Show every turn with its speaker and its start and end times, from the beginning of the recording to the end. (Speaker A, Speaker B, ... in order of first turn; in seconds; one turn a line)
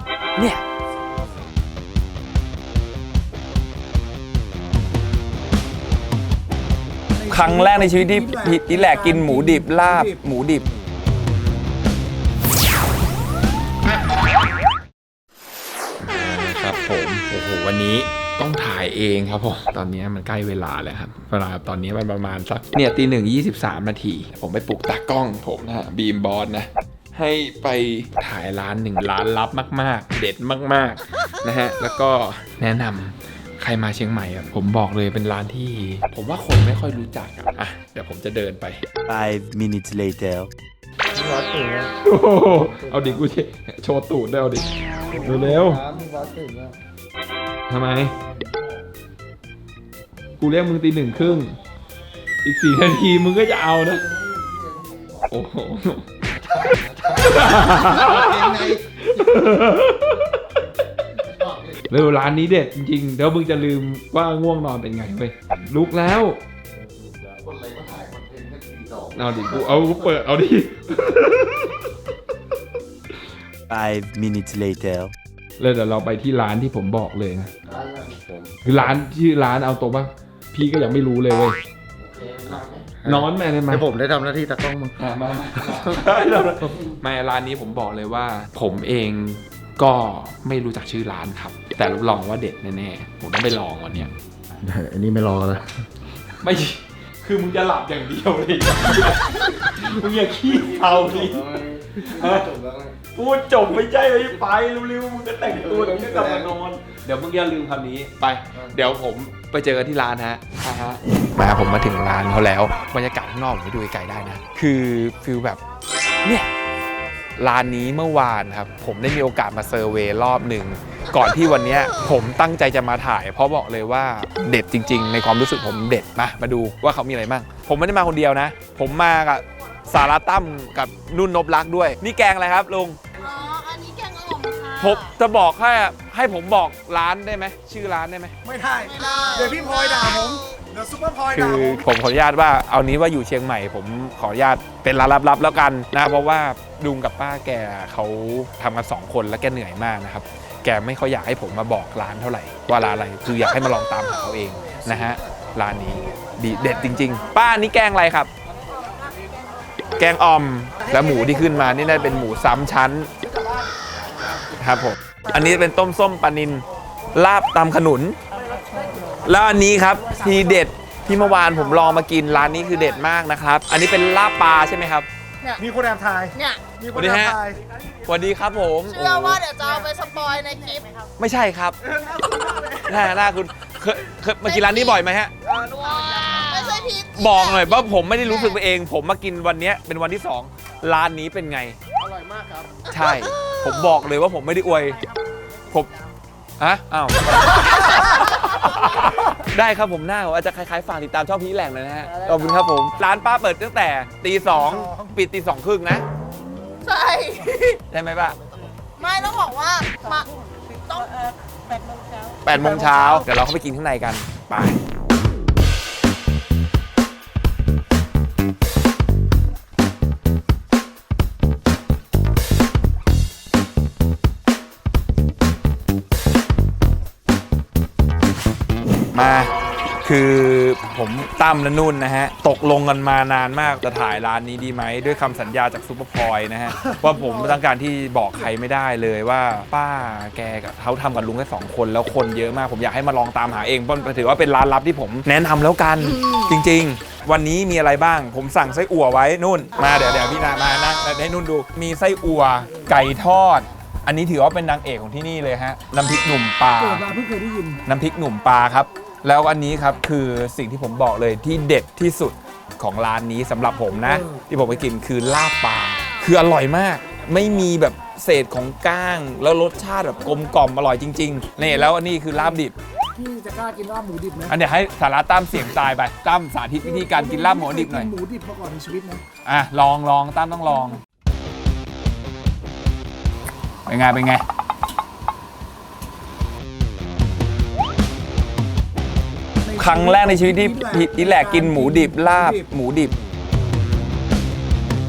Speaker A: 0.3-0.6
Speaker B: 7.1-10.2
Speaker A: 7.3-10.6
Speaker A: 16.0-38.9
Speaker C: 39.0-40.5
Speaker D: 41.1-41.9
Speaker A: 42.0-45.8
Speaker D: 42.8-43.2
Speaker D: 45.1-46.8
Speaker A: 47.7-48.1
Speaker A: 50.4-51.5
Speaker A: 52.4-54.1
Speaker D: 54.1-55.2
Speaker A: 55.3-56.0
Speaker D: 57.0-58.8
Speaker A: 57.1-60.4
Speaker D: 61.3-61.8
Speaker A: 61.9-66.4
Speaker D: 67.0-70.1
Speaker A: 69.1-71.8
Speaker C: 73.7-75.1
Speaker A: 75.6-77.5
Speaker D: 77.7-78.7
Speaker A: 78.6-81.6
Speaker D: 82.0-85.0
Speaker A: 83.0-83.9
Speaker A: 85.0-94.1
Speaker D: 94.6-95.7
Speaker A: 96.4-102.5
Speaker D: 100.8-102.9
Speaker A: 103.1-115.6
Speaker D: 105.6-106.5
Speaker A: 116.2-116.5
Speaker A: 117.4-133.0
Speaker E: 133.2-135.1
Speaker A: 134.8-138.3
Speaker B: 138.4-141.8
Speaker E: 138.8-140.5
Speaker A: 141.3-158.3
Speaker A: 160.0-163.1
Speaker A: 164.6-168.2
Speaker A: 169.2-175.1
Speaker B: 170.1-170.6
Speaker B: 175.6-177.6
Speaker E: 176.3-176.6
Speaker A: 176.9-177.4
Speaker A: 178.1-179.4
Speaker E: 178.9-181.1
Speaker A: 181.2-181.8
Speaker A: 182.8-185.3
Speaker E: 184.4-188.6
Speaker A: 187.1-191.8
Speaker A: 192.9-195.0
Speaker A: 196.6-206.0
Speaker B: 204.5-205.2
Speaker E: 206.8-207.8
Speaker A: 207.9-208.4
Speaker E: 209.0-213.2
Speaker A: 212.4-214.8
Speaker A: 229.1-229.5
Speaker A: 230.0-257.1
Speaker B: 236.7-237.6
Speaker E: 246.0-246.5
Speaker B: 256.8-257.8
Speaker A: 257.8-272.7
Speaker B: 263.9-264.6
Speaker B: 271.6-271.9
Speaker B: 273.1-274.5
Speaker A: 274.5-278.1
Speaker B: 276.8-279.2
Speaker A: 279.4-281.0
Speaker A: 283.9-284.4
Speaker B: 289.6-292.7
Speaker A: 289.8-293.1